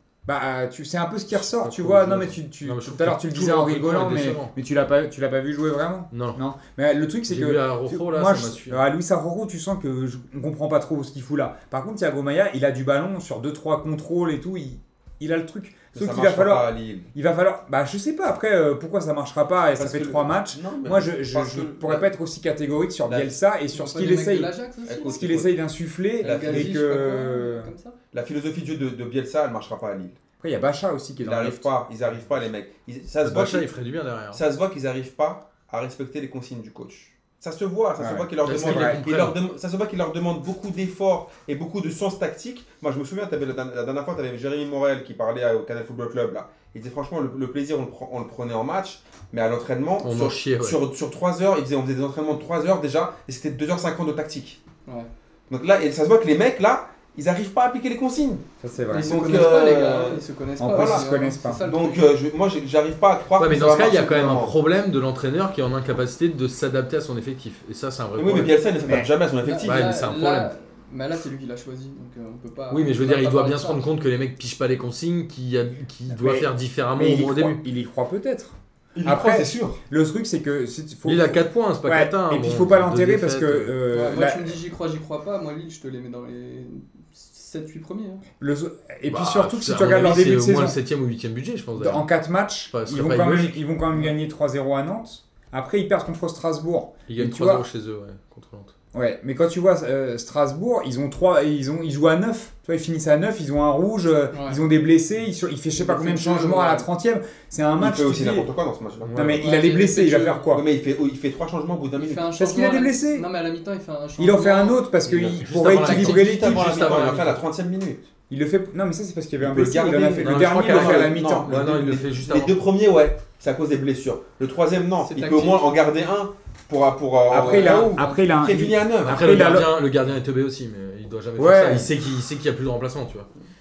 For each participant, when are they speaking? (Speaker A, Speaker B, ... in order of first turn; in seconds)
Speaker A: 0.2-27.7, 30.4-31.7, 38.0-39.0, 58.6-59.4, 60.6-61.6, 68.8-69.1, 76.1-84.6, 88.4-90.8, 91.8-97.6, 98.9-108.5, 109.2-110.6, 112.3-113.3, 114.2-116.9, 118.3-121.6, 127.3-129.8, 131.4-131.9
Speaker B: 1.3-4.5, 6.1-6.4, 7.3-8.8, 33.2-34.4, 38.4-39.4, 50.0-50.8, 63.4-68.6, 69.6-70.5, 72.7-77.6, 81.0-83.8, 89.1-92.1, 92.7-93.6, 97.1-98.7, 109.0-109.4, 115.4-117.4, 120.2-122.6, 129.0-133.3
Speaker C: 15.9-17.1, 19.8-22.1, 23.1-23.3, 24.8-25.6, 26.2-26.8, 28.1-30.1, 31.2-33.7, 34.3-54.6, 55.5-61.1, 61.6-64.5, 68.2-69.9, 78.9-79.8, 107.8-109.3, 110.5-112.3, 115.0-118.1, 119.4-129.2
Speaker D: 23.7-25.3, 26.2-28.0, 58.9-62.1, 69.4-73.8, 83.9-88.2, 104.3-104.6, 105.7-106.9, 109.3-110.5, 112.0-114.8, 125.0-125.7, 127.4-128.2